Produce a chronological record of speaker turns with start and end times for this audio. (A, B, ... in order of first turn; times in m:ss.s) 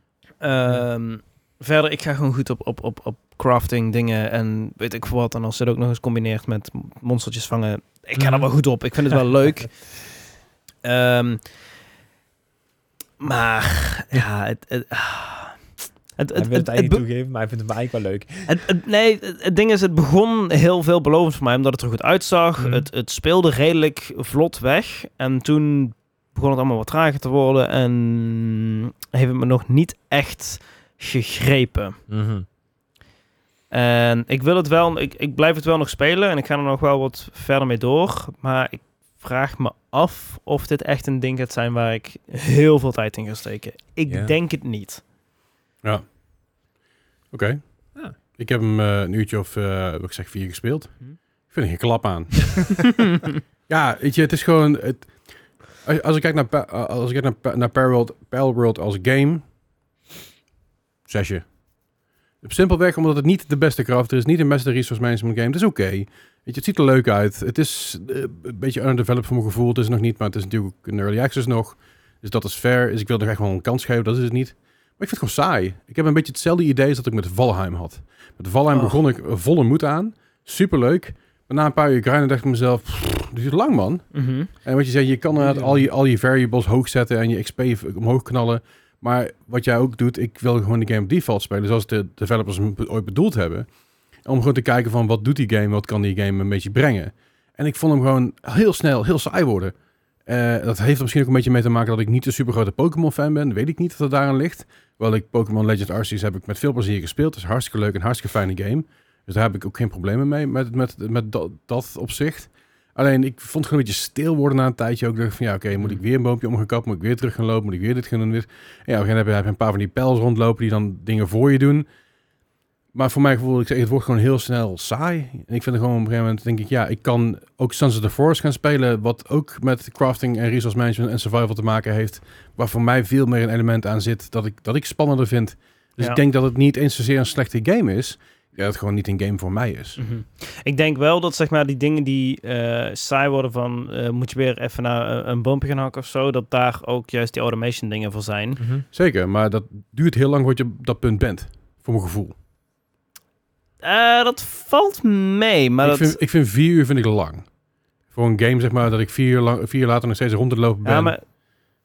0:00.4-0:09.9 A
0:08.2-0:08.5 B
0:10.8-0:11.4 A
0:13.2-0:17.0 A
0:16.3-0:18.5 B
0:18.5-0:32.0 A
0:22.6-0:22.9 B
0:32.1-0:32.4 B
0:33.7-0:45.0 A
0:44.1-0:44.3 B
0:47.3-0:53.0 C
0:53.7-0:55.1 C
0:55.8-0:59.4 C
1:01.1-1:01.5 C
1:02.4-1:33.7 C
1:24.1-1:24.5 A
1:25.4-1:25.8 B
1:34.2-1:39.7 C
1:40.2-2:01.8 C
2:02.9-2:20.0 C
2:20.0-2:28.6 A
2:28.6-2:28.8 B
2:28.9-2:32.3 C
2:33.8-2:36.2 A
2:35.8-2:37.5 C
2:38.1-2:41.1 C
2:40.8-2:41.2 A